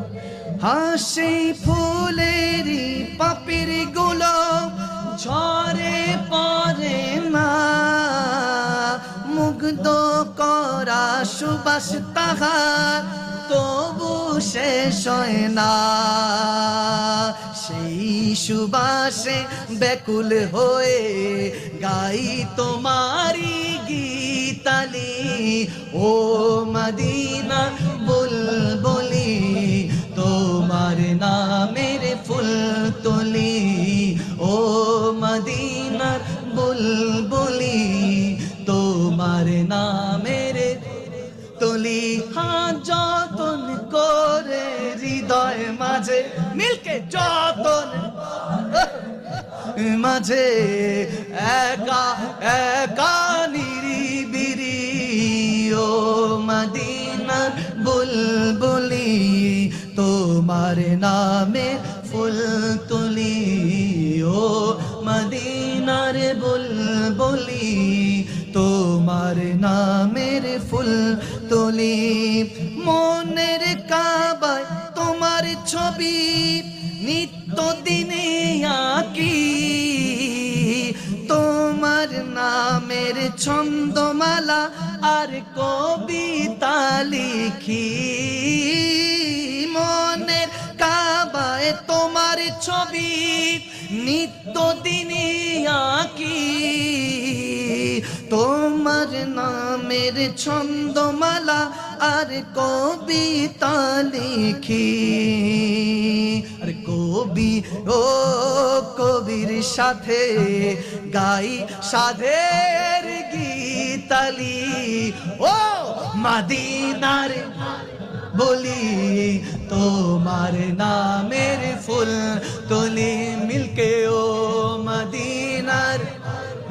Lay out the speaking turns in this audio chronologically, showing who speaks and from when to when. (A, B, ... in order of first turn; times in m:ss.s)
0:00.6-2:06.2 A